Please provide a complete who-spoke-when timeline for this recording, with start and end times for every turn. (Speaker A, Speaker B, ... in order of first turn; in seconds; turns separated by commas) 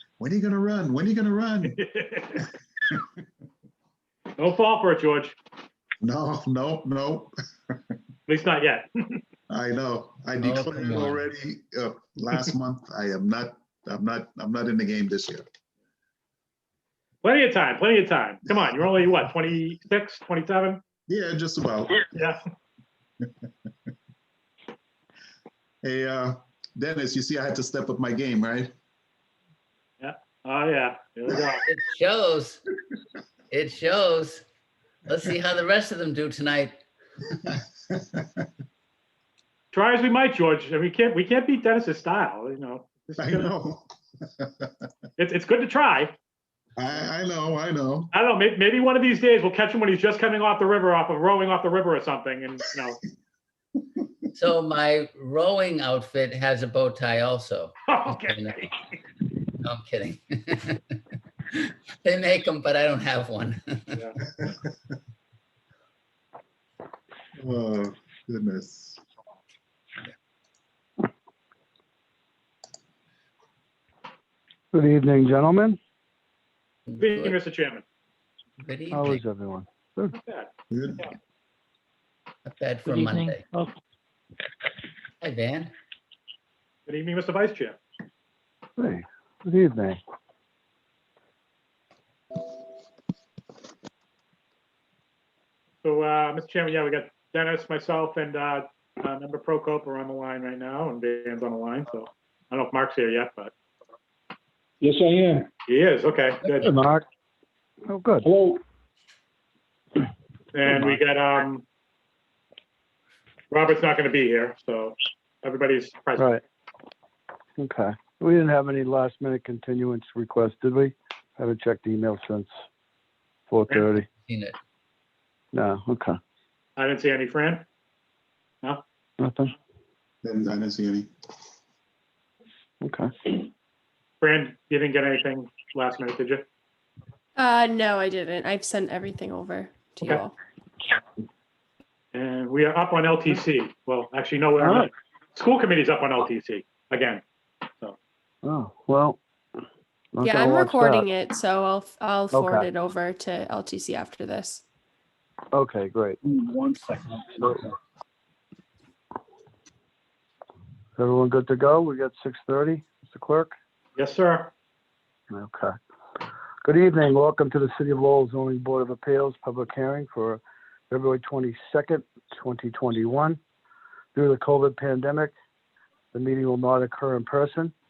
Speaker A: 0.2-1.8, Speaker B: 1.7-2.5, Speaker B: 4.4-5.4, Speaker A: 6.0-7.3, Speaker B: 8.3-9.2, Speaker A: 9.5-15.4, Speaker C: 10.4-11.2, Speaker B: 17.2-20.8, Speaker A: 21.1-22.1, Speaker B: 22.1-22.4, Speaker A: 25.8-28.7, Speaker B: 30.0-31.6, Speaker C: 31.7-32.6, Speaker C: 33.5-34.4, Speaker C: 35.1-36.8, Speaker A: 37.9-38.5, Speaker B: 39.7-43.5, Speaker A: 43.2-44.7, Speaker B: 45.2-46.1, Speaker A: 46.8-48.1, Speaker B: 48.1-53.0, Speaker C: 54.3-58.7, Speaker B: 57.9-58.7, Speaker C: 59.6-60.8, Speaker C: 62.0-64.0, Speaker A: 67.4-69.0, Speaker D: 74.7-75.8, Speaker C: 76.9-77.3, Speaker B: 77.0-77.8, Speaker C: 78.6-79.2, Speaker D: 78.9-80.2, Speaker B: 80.2-80.5, Speaker A: 80.7-81.1, Speaker C: 82.4-83.4, Speaker E: 83.0-83.2, Speaker C: 85.2-85.7, Speaker B: 86.9-87.8, Speaker D: 88.8-90.0, Speaker B: 95.8-103.5, Speaker E: 104.8-105.5, Speaker B: 105.7-106.7, Speaker D: 106.6-107.0, Speaker D: 107.9-108.3, Speaker E: 108.2-108.6, Speaker B: 110.5-111.6, Speaker B: 113.5-116.3, Speaker D: 116.2-116.4, Speaker D: 117.6-122.5, Speaker D: 123.5-124.1, Speaker C: 124.2-124.5, Speaker D: 125.5-126.2, Speaker B: 126.8-127.6, Speaker D: 129.2-129.5, Speaker A: 130.2-131.1, Speaker D: 132.8-133.3, Speaker B: 134.2-136.4, Speaker F: 137.4-140.3, Speaker B: 142.1-147.2, Speaker D: 144.6-144.9, Speaker D: 148.4-149.2, Speaker D: 150.2-151.1, Speaker F: 150.2-154.6, Speaker D: 152.3-152.7, Speaker D: 155.5-156.2, Speaker E: 156.3-157.2, Speaker D: 161.0-163.5, Speaker B: 164.0-164.5, Speaker D: 165.3-165.7, Speaker D: 166.6-173.4, Speaker D: 174.1-175.3, Speaker D: 176.1-177.7